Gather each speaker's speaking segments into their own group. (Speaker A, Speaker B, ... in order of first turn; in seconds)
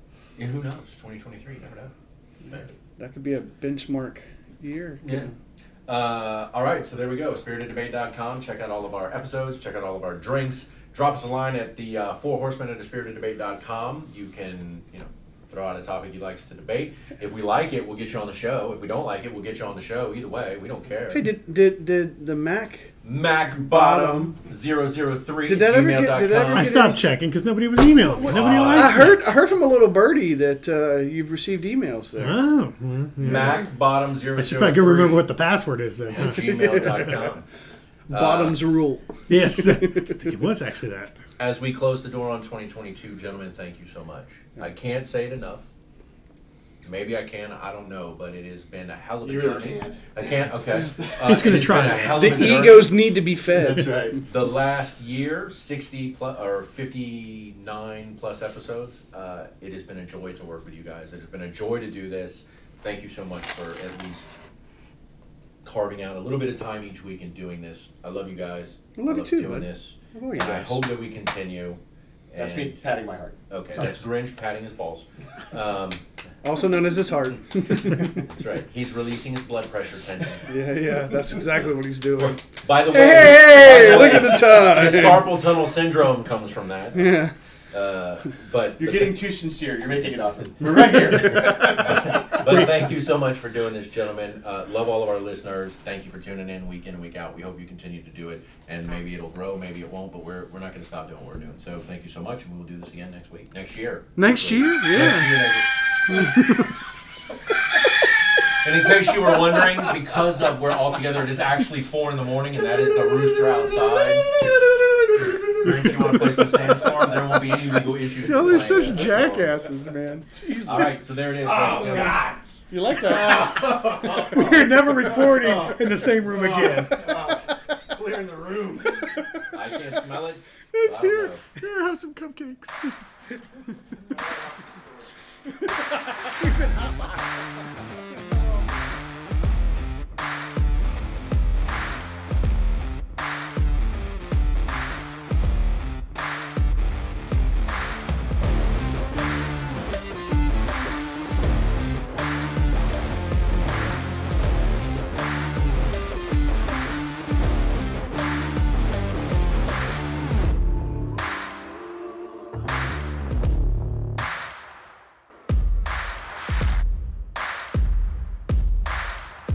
Speaker A: 0.4-1.9, 5.0-5.3, 5.9-21.3, 23.0-26.8, 28.2-29.3, 33.2-35.3, 36.1-37.4, 38.1-38.6, 41.4-45.7, 46.8-53.0, 54.2-64.4, 65.6-71.8, 72.3-72.8, 73.5-76.0, 77.8-80.5, 82.2-89.2, 91.2-105.7, 108.6-114.3, 115.5-119.5, 120.7-122.2, 129.5-131.4
Speaker B: 2.5-5.3, 21.1-22.9, 23.7-24.4, 25.5-27.0, 28.2-32.4, 36.2-37.4, 38.1-40.2, 52.0-54.2, 69.0-70.8, 73.8-74.0, 76.4-78.2, 80.5-85.3, 86.9-87.3, 104.2-105.4, 106.1-106.7, 118.2-120.9, 122.7-123.8, 130.7-133.0
Speaker C: 26.5-29.2, 32.2-33.6, 34.4-36.5, 39.3-41.2, 51.2-52.8, 123.1-127.4, 136.4-137.2
Speaker D: 49.2-50.3, 53.6-54.2, 72.4-73.4, 88.8-92.6, 121.4-122.4, 123.0-129.2, 134.0-135.1